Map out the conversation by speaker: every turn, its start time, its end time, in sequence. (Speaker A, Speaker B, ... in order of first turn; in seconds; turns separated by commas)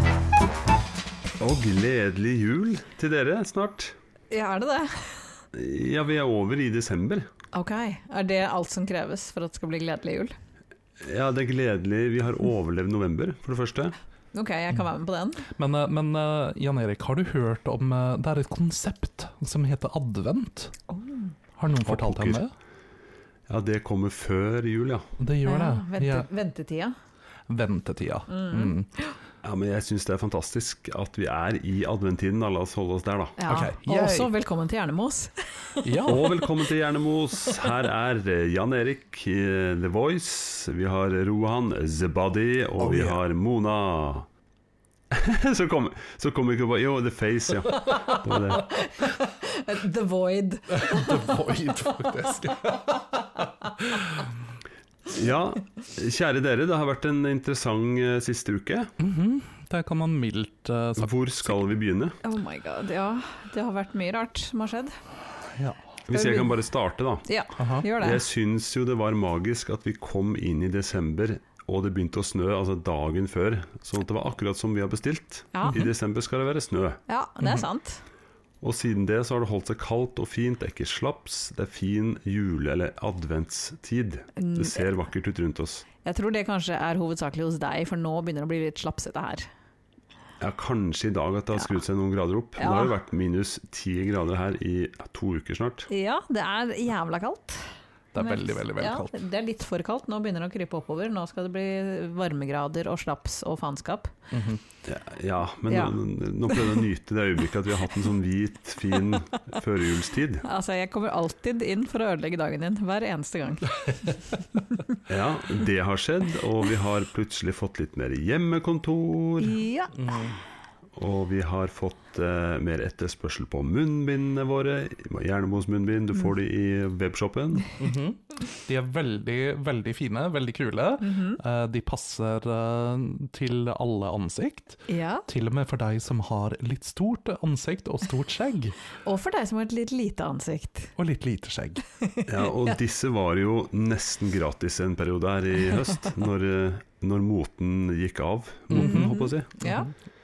Speaker A: 1.4-3.9, Speaker B: 4.3-5.3, Speaker A: 5.5-7.3, Speaker B: 7.5-10.3, Speaker A: 11.0-13.9, Speaker B: 14.3-15.5, Speaker C: 15.5-20.7, Speaker B: 20.9-21.3, Speaker C: 21.6-22.5, Speaker A: 21.9-22.4, Speaker A: 23.5-25.1, Speaker C: 25.2-26.3, Speaker B: 25.4-26.9, Speaker C: 27.5-28.9, Speaker B: 28.3-29.1, Speaker A: 29.4-33.4, Speaker B: 33.4-36.4, Speaker C: 33.5-34.3, Speaker C: 35.8-36.3, Speaker A: 36.0-44.3, Speaker C: 42.8-43.2, Speaker A: 45.1-48.8, Speaker B: 47.7-51.5, Speaker C: 50.7-54.3, Speaker A: 55.1-58.9, Speaker C: 59.0-61.6, Speaker A: 61.0-62.2, Speaker B: 62.2-64.9, Speaker C: 65.5-65.8, Speaker A: 66.1-67.3, Speaker B: 66.1-66.5, Speaker B: 67.2-68.2, Speaker C: 67.6-67.9, Speaker A: 67.8-77.0, Speaker B: 75.5-75.8, Speaker B: 77.1-78.0, Speaker A: 78.6-85.8, Speaker B: 84.4-84.8, Speaker B: 86.0-89.5, Speaker A: 90.4-95.9, Speaker B: 92.6-92.9, Speaker B: 95.9-104.1, Speaker C: 98.1-99.2, Speaker C: 104.3-104.6, Speaker A: 104.8-110.4, Speaker B: 105.7-106.0, Speaker B: 110.4-114.2, Speaker B: 114.7-115.0, Speaker A: 115.1-119.6, Speaker B: 119.4-120.2, Speaker C: 119.9-120.4, Speaker A: 120.9-127.8, Speaker C: 127.8-138.8, Speaker B: 131.0-131.4, Speaker B: 134.9-135.2, Speaker B: 139.0-140.9, Speaker C: 141.0-141.8, Speaker A: 142.2-149.5, Speaker C: 148.7-149.9, Speaker B: 148.7-149.9